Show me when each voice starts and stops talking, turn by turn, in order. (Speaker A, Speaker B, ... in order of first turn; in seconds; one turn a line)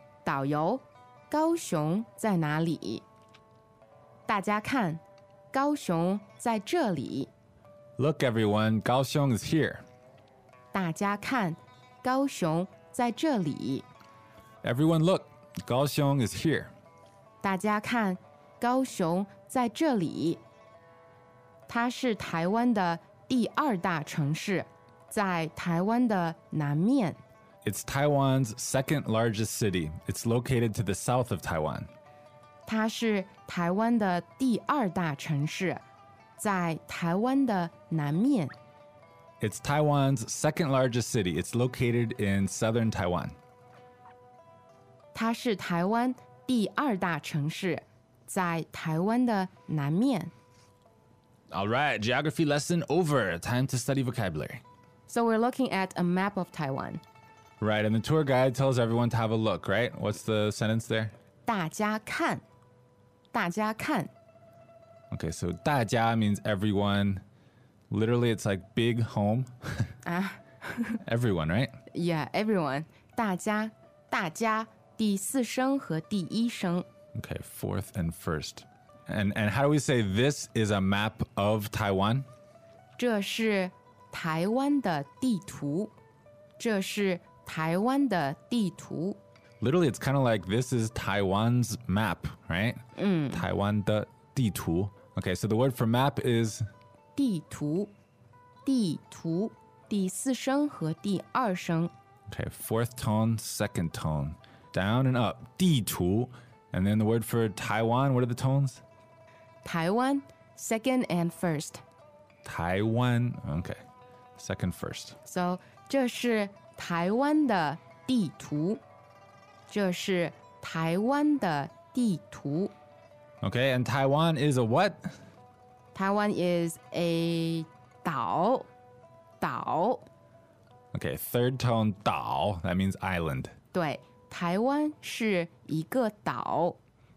Speaker A: 0.2-3.0
Speaker A: 4.3-5.0
Speaker A: 5.5-7.3
Speaker B: 8.0-9.8
Speaker A: 10.7-13.8
Speaker B: 14.6-16.7
Speaker A: 17.4-20.4
Speaker A: 21.7-27.2
Speaker B: 27.6-31.9
Speaker A: 32.6-35.8
Speaker A: 36.4-38.5
Speaker B: 39.4-43.4
Speaker A: 45.1-50.3
Speaker B: 51.5-54.6
Speaker A: 55.1-57.0
Speaker B: 57.6-61.1
Speaker A: 61.5-62.4
Speaker A: 63.3-64.1
Speaker B: 65.1-67.2
Speaker B: 67.9-69.9
Speaker A: 70.0-71.0
Speaker B: 71.0-71.7
Speaker A: 71.9-76.8
Speaker B: 77.1-82.2
Speaker A: 83.0-85.9
Speaker A: 86.6-89.2
Speaker B: 89.6-92.8
Speaker A: 93.0-93.4
Speaker B: 93.3-96.7
Speaker A: 97.2-97.9
Speaker A: 98.6-101.9
Speaker B: 102.3-108.8
Speaker A: 109.6-111.8
Speaker B: 112.4-113.8
Speaker B: 114.4-115.2
Speaker A: 115.2-118.8
Speaker A: 119.7-122.7
Speaker B: 123.4-125.1
Speaker A: 125.9-128.7
Speaker A: 129.4-130.0
Speaker B: 130.9-133.5
Speaker A: 133.7-136.8